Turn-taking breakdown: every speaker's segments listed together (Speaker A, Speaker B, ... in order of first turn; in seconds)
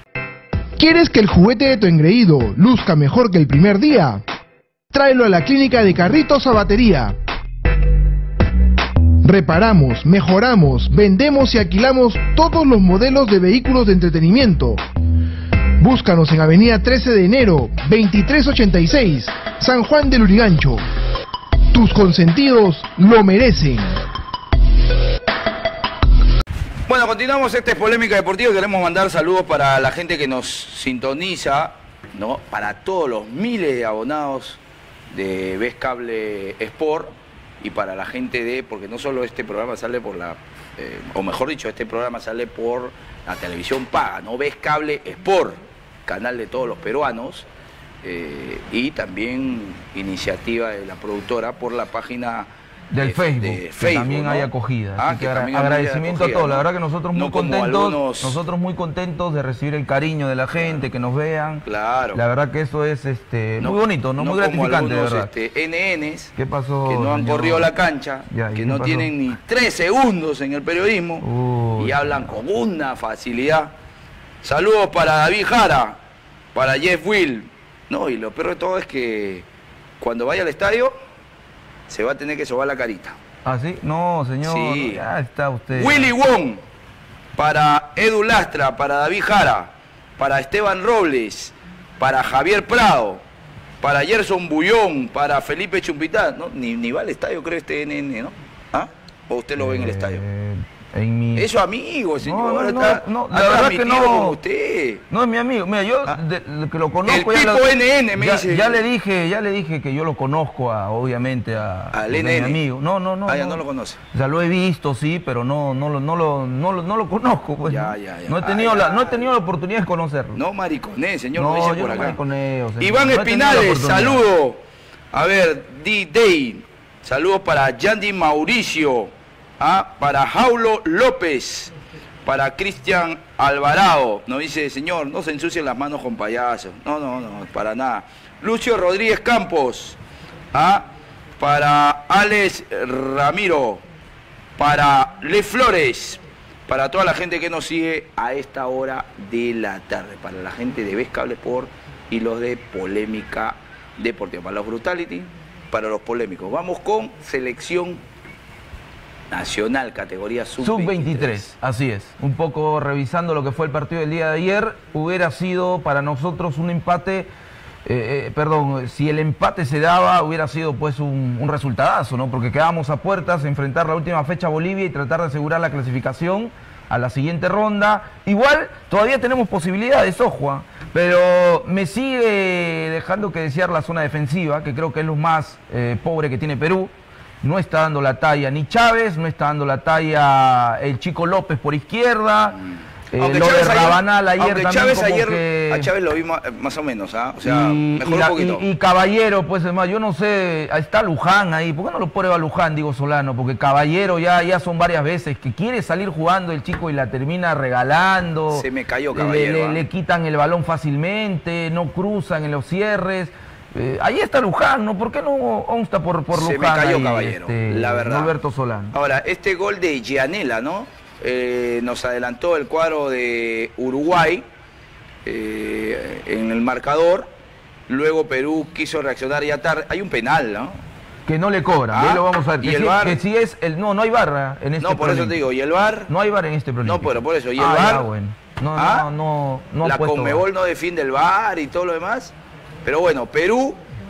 Speaker A: 0.8-4.2, 4.9-7.2, 9.2-14.8, 15.8-20.8, 21.7-24.0
Speaker B: 26.9-34.6, 35.1-47.5, 48.0-58.4, 60.6-60.8, 61.6-62.2, 63.6-66.3, 66.9-71.2, 71.8-73.7, 74.4-76.0, 76.5-79.5, 80.0-80.9, 81.9-83.2, 84.4-85.0, 85.7-86.6, 87.3-93.2, 93.8-100.2, 101.3-105.0, 107.0-108.8, 111.9-112.6, 113.2-114.0, 117.6-119.3, 120.3-122.2, 122.8-124.6, 125.1-131.7, 132.2-140.0, 140.5-140.9, 141.4-143.8, 144.6-158.0, 159.3-161.5, 193.2-198.6, 208.5-209.8, 216.3-218.3, 218.9-224.4, 225.2-227.3, 227.9-230.8, 231.9-233.2, 234.8-236.1, 236.8-238.1, 238.8-239.1, 239.8-242.3, 242.8-243.8
Speaker C: 52.9-65.3, 66.3-67.7, 68.3-69.1, 71.2-72.2, 83.4-86.1, 99.6-101.5, 102.2-104.4, 105.1-113.6, 114.1-120.4, 121.3-124.2, 160.6-167.3, 167.8-186.9, 187.4-192.6, 193.1-195.9, 197.4-218.9, 231.3-235.4, 236.1-240.4